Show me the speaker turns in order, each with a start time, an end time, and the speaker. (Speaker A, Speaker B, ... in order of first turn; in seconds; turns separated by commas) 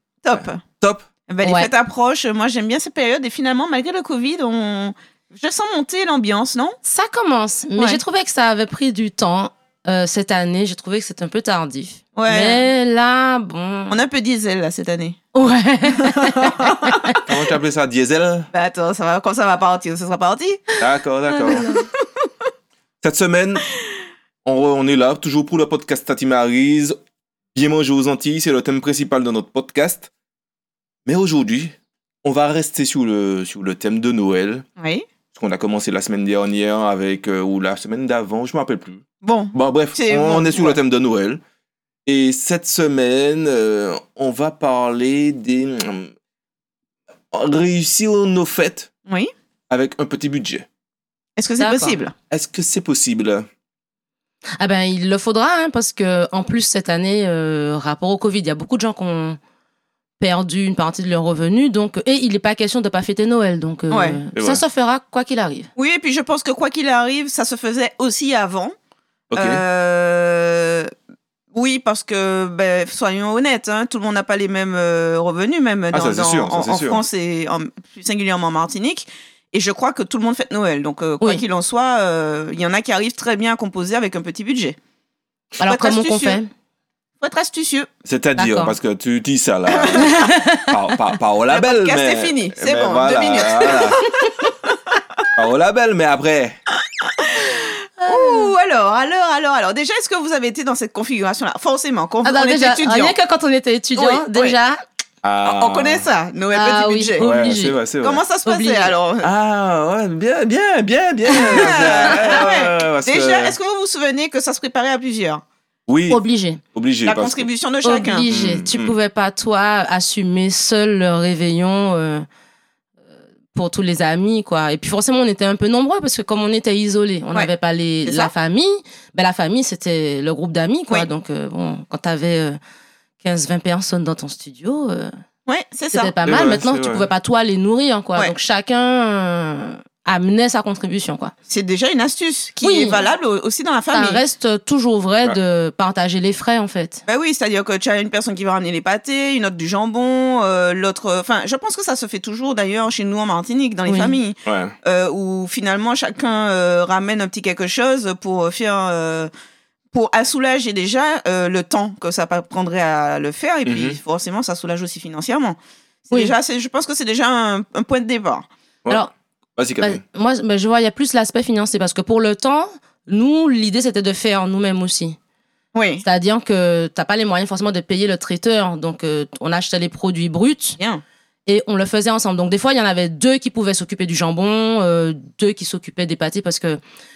Speaker A: 0.2-0.6, Speaker B: 0.3-1.1, Speaker A: 1.3-6.8, Speaker C: 1.4-1.7, Speaker C: 6.8-14.0, Speaker A: 12.1-12.7, Speaker A: 13.9-15.2, Speaker C: 15.3-17.2, Speaker A: 15.9-17.2, Speaker B: 17.2-18.5, Speaker A: 18.5-20.8, Speaker B: 20.8-21.7, Speaker C: 21.3-21.9, Speaker A: 21.4-22.2, Speaker B: 23.0-23.6, Speaker B: 24.4-26.9, Speaker B: 27.5-30.1, Speaker B: 31.1-34.6, Speaker A: 34.8-35.0, Speaker B: 35.3-41.4, Speaker A: 39.2-40.8, Speaker B: 42.0-46.1, Speaker B: 47.3-48.9, Speaker B: 49.7-50.6, Speaker A: 51.4-52.1, Speaker C: 51.6-52.0, Speaker B: 52.3-53.5, Speaker C: 54.6-59.4, Speaker C: 60.2-65.7, Speaker A: 63.9-64.2, Speaker B: 64.3-64.6, Speaker A: 65.8-68.7, Speaker B: 69.3-69.6, Speaker A: 69.3-70.9, Speaker A: 71.5-84.8, Speaker B: 75.9-77.0, Speaker A: 85.6-86.4, Speaker C: 85.6-86.5, Speaker A: 87.2-87.9, Speaker B: 88.0-94.0, Speaker C: 88.4-88.7, Speaker A: 89.7-90.2, Speaker C: 90.0-90.7, Speaker A: 91.5-94.7, Speaker B: 95.3-96.6, Speaker A: 97.0-103.1, Speaker C: 98.0-98.5, Speaker C: 102.2-104.8, Speaker A: 104.0-104.5, Speaker B: 105.2-106.1, Speaker A: 105.4-107.3, Speaker C: 106.5-107.8, Speaker B: 107.2-108.2, Speaker A: 108.0-109.3, Speaker C: 108.5-108.9, Speaker B: 109.2-113.6, Speaker C: 111.3-111.8, Speaker A: 111.3-115.4, Speaker B: 115.9-116.2, Speaker C: 116.1-116.6, Speaker B: 116.7-117.5, Speaker A: 117.0-118.3, Speaker C: 117.8-122.2, Speaker B: 118.2-118.9, Speaker C: 123.5-132.6, Speaker A: 128.0-128.3, Speaker C: 133.2-135.1, Speaker A: 135.5-136.1, Speaker C: 135.9-141.3, Speaker B: 136.2-137.1, Speaker A: 141.5-144.2, Speaker C: 142.6-143.1, Speaker C: 143.9-147.0, Speaker A: 147.1-159.3, Speaker C: 153.9-154.1, Speaker B: 154.4-154.7, Speaker A: 159.9-168.5, Speaker B: 163.6-164.0, Speaker B: 169.6-170.0, Speaker C: 169.8-175.2, Speaker A: 175.7-176.0, Speaker C: 176.0-180.8, Speaker C: 181.5-186.8